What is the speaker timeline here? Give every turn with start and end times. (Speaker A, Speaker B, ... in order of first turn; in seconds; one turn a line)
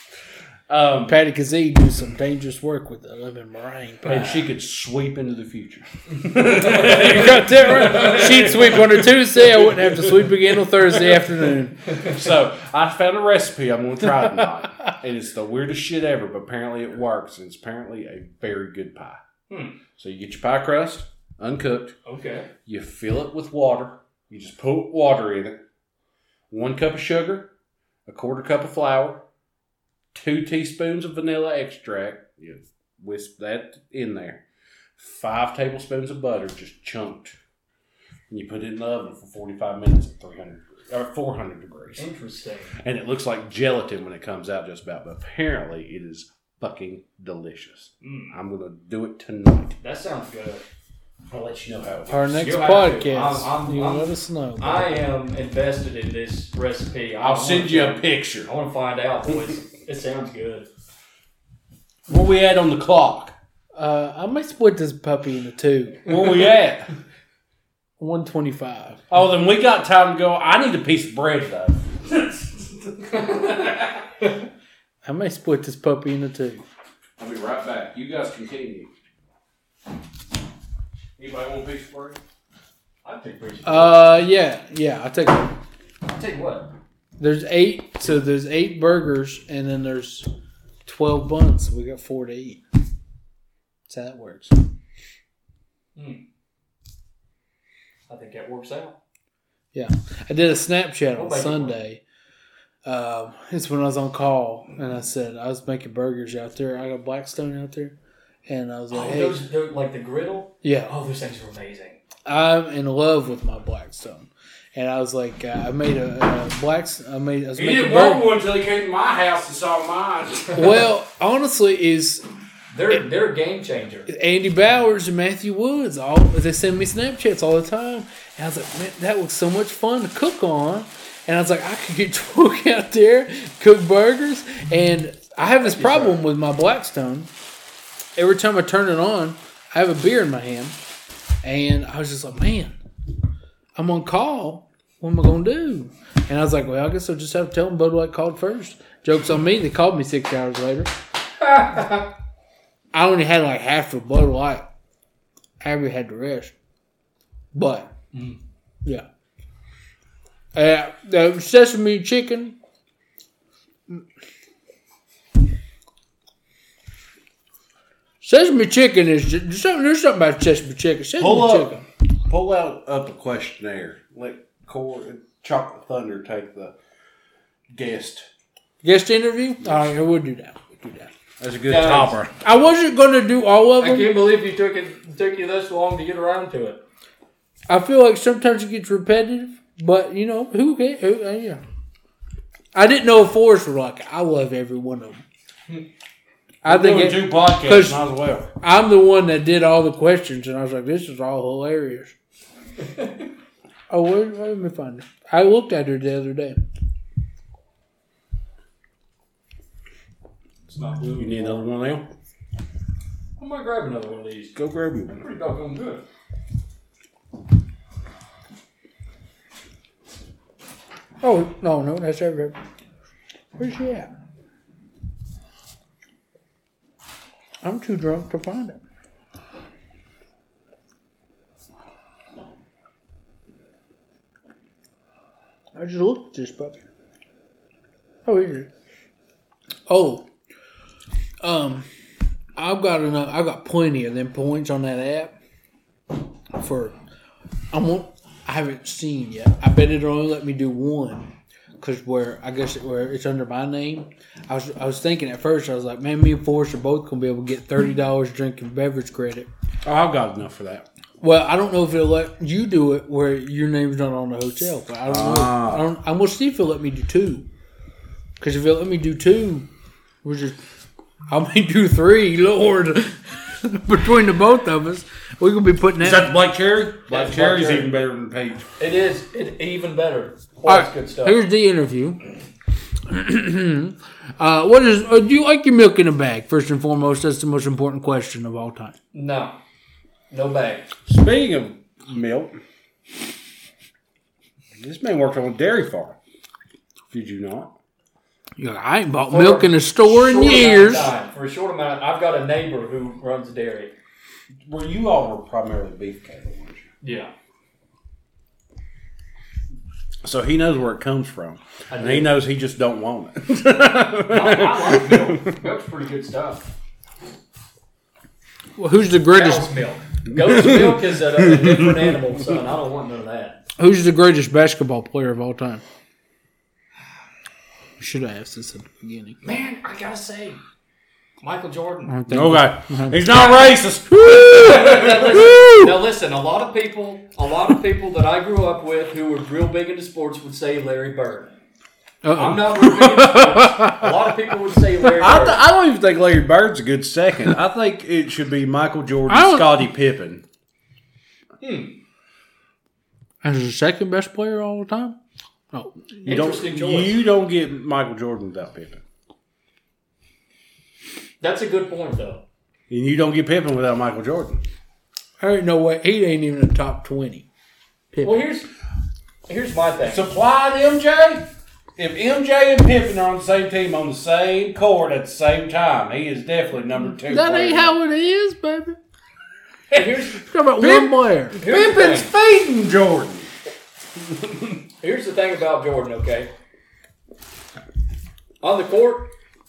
Speaker A: 0.7-1.2
Speaker B: 1.1-4.4
Speaker A: 4.0-19.2
Speaker C: 6.5-8.3
Speaker B: 6.6-11.8
Speaker C: 11.9-12.2
Speaker B: 14.2-14.4
Speaker C: 19.5-19.8
Speaker A: 20.0-21.9
Speaker C: 22.1-22.5
Speaker A: 22.7-25.6
Speaker A: 26.5-27.5
Speaker A: 28.1-29.2
Speaker A: 30.1-34.4
Speaker A: 35.0-37.4
Speaker A: 38.3-42.1
Speaker C: 42.0-42.8
Speaker A: 42.8-49.8
Speaker C: 48.0-48.3
Speaker C: 49.8-50.6
Speaker A: 51.3-52.4
Speaker B: 52.1-55.0
Speaker C: 52.4-60.7
Speaker A: 57.2-58.5
Speaker A: 62.1-63.3
Speaker B: 63.8-66.0
Speaker A: 66.1-66.9
Speaker B: 68.0-69.0
Speaker A: 69.1-71.9
Speaker C: 73.1-74.3
Speaker B: 75.0-76.6
Speaker A: 77.2-78.9
Speaker A: 81.2-82.2
Speaker C: 83.0-84.3
Speaker B: 83.6-85.6
Speaker C: 86.1-86.7
Speaker B: 87.2-90.3
Speaker B: 90.8-92.6
Speaker B: 93.9-94.6
Speaker C: 96.0-96.2
Speaker C: 98.1-99.0
Speaker B: 99.7-102.0
Speaker C: 101.2-101.8
Speaker B: 102.8-108.0
Speaker B: 108.5-109.4
Speaker C: 108.9-112.0
Speaker B: 110.6-110.9
Speaker B: 112.3-118.3
Speaker A: 117.6-120.8
Speaker B: 120.5-122.2
Speaker C: 122.7-124.1
Speaker B: 124.1-137.3
Speaker C: 135.6-136.2
Speaker B: 138.2-140.8
Speaker B: 141.4-142.8
Speaker B: 143.8-150.9
Speaker C: 151.4-152.1
Speaker B: 152.9-154.7
Speaker B: 155.6-156.5
Speaker B: 157.5-157.9
Speaker C: 158.1-158.4
Speaker B: 160.6-162.6
Speaker B: 168.2-171.8
Speaker A: 171.2-171.7
Speaker A: 172.3-176.8
Speaker A: 177.7-178.3
Speaker B: 178.8-181.1
Speaker A: 181.4-182.3
Speaker C: 181.7-182.2
Speaker B: 182.4-184.2
Speaker C: 183.8-186.8
Speaker B: 187.7-191.6
Speaker B: 192.8-195.2
Speaker B: 196.6-198.0
Speaker A: 196.7-198.5
Speaker B: 198.6-202.2
Speaker C: 202.8-203.1
Speaker B: 203.9-206.6
Speaker C: 210.7-211.7
Speaker A: 211.2-212.1
Speaker C: 213.4-214.6
Speaker A: 214.6-215.2
Speaker C: 215.1-216.1
Speaker B: 221.2-222.6
Speaker B: 223.6-224.1
Speaker B: 227.6-228.8
Speaker B: 235.8-236.8
Speaker B: 238.3-238.7
Speaker B: 239.9-240.3
Speaker B: 241.4-241.9
Speaker B: 242.6-245.3
Speaker B: 246.6-246.9
Speaker B: 247.7-259.5
Speaker A: 259.9-260.9
Speaker B: 261.2-267.5
Speaker A: 265.1-265.9
Speaker B: 268.4-269.7
Speaker B: 270.2-270.6
Speaker B: 271.3-276.3
Speaker A: 276.0-278.7
Speaker C: 277.1-277.9
Speaker C: 278.8-281.4
Speaker B: 280.7-282.2
Speaker B: 283.1-288.9
Speaker C: 289.1-289.6
Speaker C: 290.3-290.9
Speaker A: 291.1-292.6
Speaker A: 294.8-296.2
Speaker A: 297.1-297.7
Speaker B: 298.6-301.1
Speaker C: 299.3-303.9
Speaker A: 304.7-306.9
Speaker C: 307.0-307.3
Speaker A: 310.2-315.6
Speaker C: 311.9-312.3
Speaker C: 314.3-316.7
Speaker B: 318.8-319.7
Speaker C: 319.3-323.6
Speaker A: 320.3-322.3
Speaker B: 323.8-325.8
Speaker B: 328.0-329.4
Speaker C: 329.4-330.6
Speaker C: 331.4-332.1
Speaker B: 332.1-333.3
Speaker A: 332.3-335.5
Speaker C: 333.2-333.8
Speaker B: 334.1-335.9
Speaker C: 334.6-341.5
Speaker B: 342.2-344.1
Speaker C: 342.4-345.6
Speaker A: 345.1-350.4
Speaker B: 349.3-349.8
Speaker C: 351.6-351.9
Speaker B: 353.4-355.2
Speaker B: 355.7-356.5
Speaker A: 356.2-359.0
Speaker C: 356.2-357.3
Speaker C: 361.4-362.4
Speaker A: 362.9-364.6
Speaker B: 365.4-367.5
Speaker B: 368.1-368.5
Speaker C: 368.2-368.7
Speaker C: 369.5-370.3
Speaker A: 370.1-378.0
Speaker B: 377.3-379.0
Speaker A: 379.9-380.2
Speaker C: 379.9-380.4
Speaker B: 380.5-381.6
Speaker A: 380.8-383.5
Speaker C: 381.6-382.3
Speaker A: 384.2-384.8
Speaker C: 385.0-386.5
Speaker C: 388.6-389.3